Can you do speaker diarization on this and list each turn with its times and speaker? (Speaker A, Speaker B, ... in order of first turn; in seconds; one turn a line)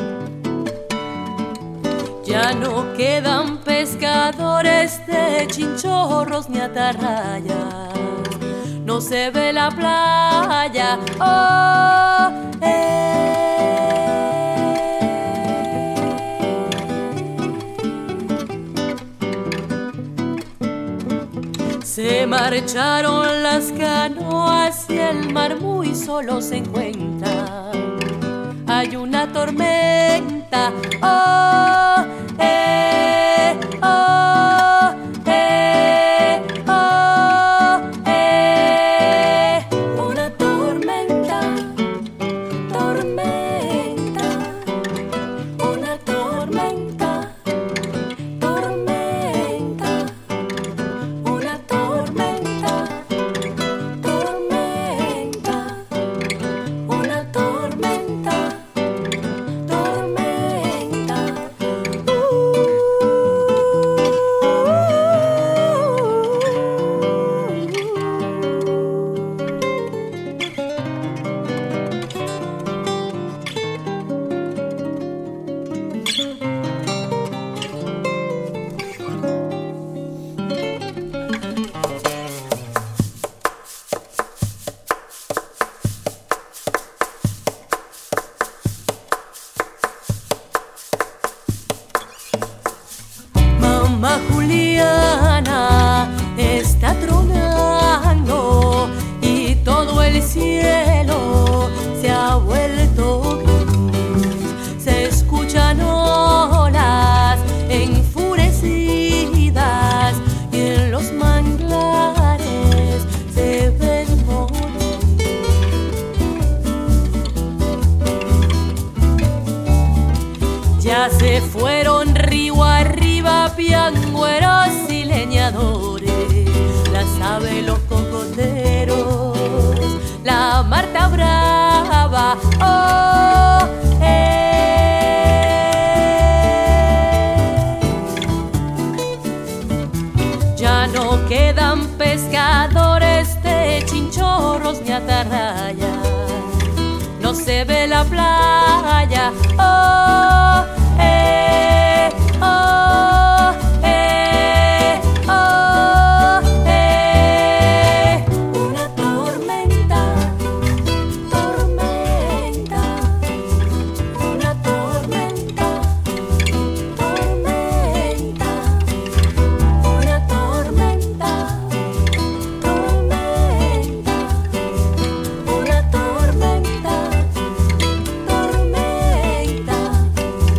Speaker A: 2.2-15.2
Speaker A: 21.8-41.9
Speaker A: 42.6-45.0
Speaker A: 45.5-47.6
Speaker A: 48.2-50.4
Speaker A: 51.1-53.3
Speaker A: 53.9-56.1
Speaker A: 56.7-58.9
Speaker A: 59.5-62.8
Speaker A: 65.6-66.4
Speaker A: 93.5-115.5
Speaker A: 120.7-137.8
Speaker A: 140.5-160.6
Speaker A: 161.2-163.5
Speaker A: 164.1-169.1
Speaker A: 169.8-172.0
Speaker A: 172.5-174.7
Speaker A: 175.3-180.3